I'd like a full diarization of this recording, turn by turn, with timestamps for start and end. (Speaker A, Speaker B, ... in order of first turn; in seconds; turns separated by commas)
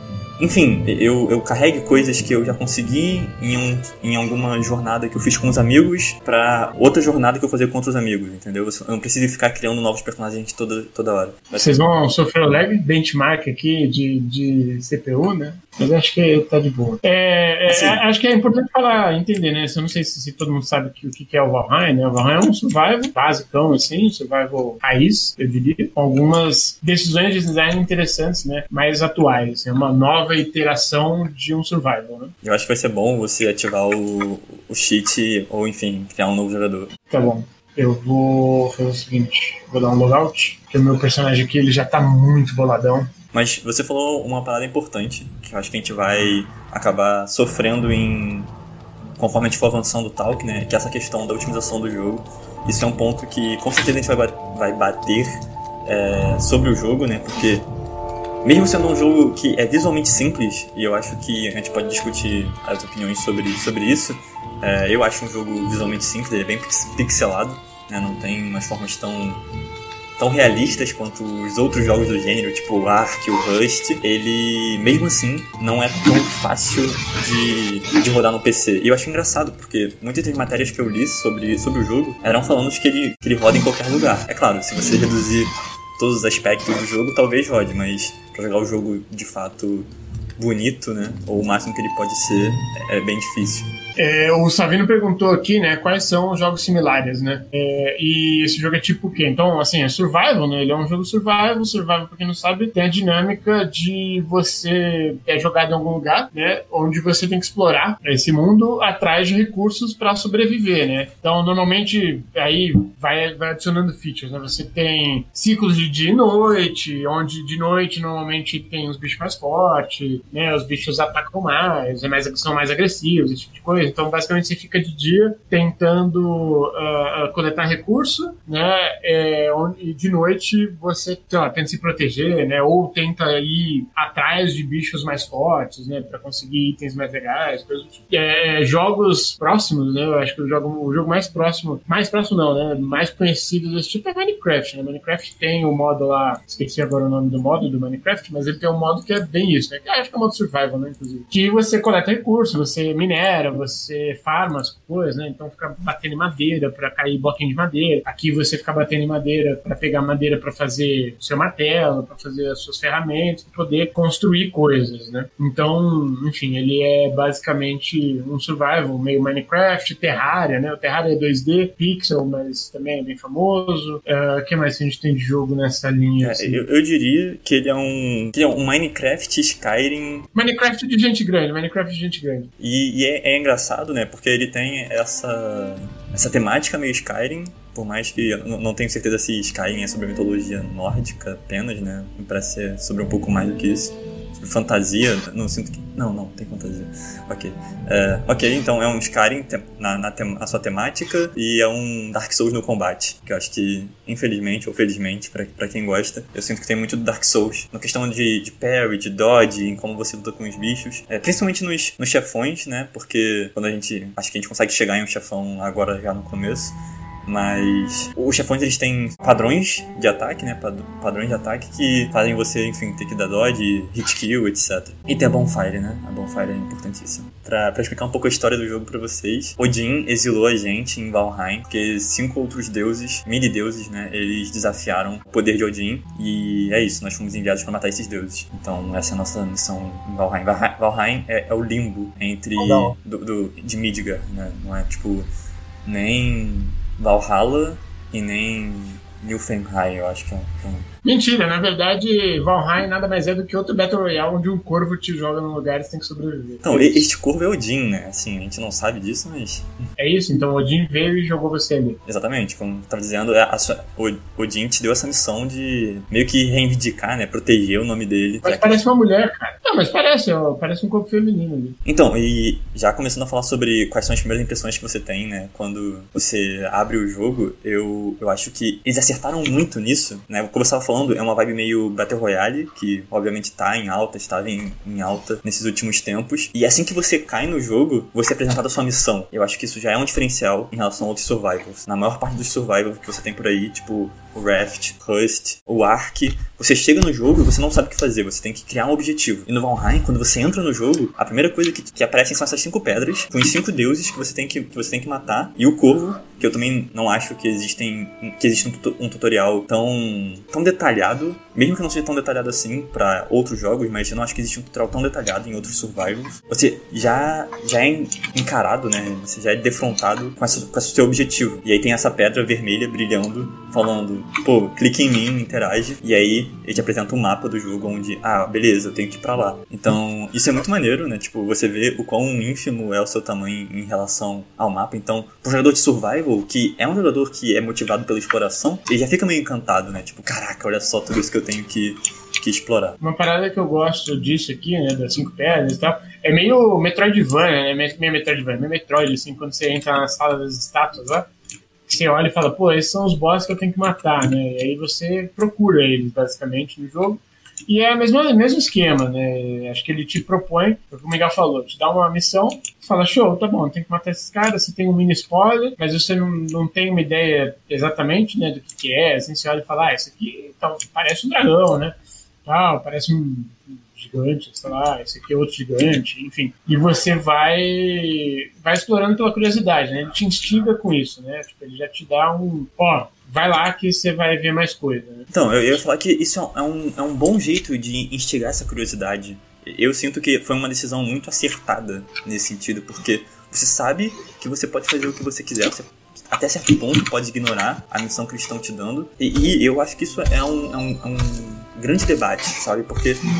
Speaker A: 0.4-11.8, Speaker B: 11.5-32.3, Speaker A: 17.7-18.0, Speaker A: 32.4-36.9, Speaker B: 37.1-43.1, Speaker A: 43.3-48.5, Speaker A: 49.2-57.6, Speaker A: 58.4-69.4, Speaker A: 70.2-93.7, Speaker B: 94.0-176.6, Speaker A: 176.2-180.3, Speaker B: 180.3-182.5, Speaker A: 182.6-245.3, Speaker B: 242.6-242.9, Speaker A: 245.8-250.9, Speaker B: 251.1-257.1, Speaker A: 256.6-259.7, Speaker B: 260.0-262.0, Speaker A: 262.1-268.8, Speaker B: 268.4-271.8, Speaker A: 271.8-343.0, Speaker B: 343.0-351.3, Speaker B: 351.9-385.3, Speaker A: 385.3-403.2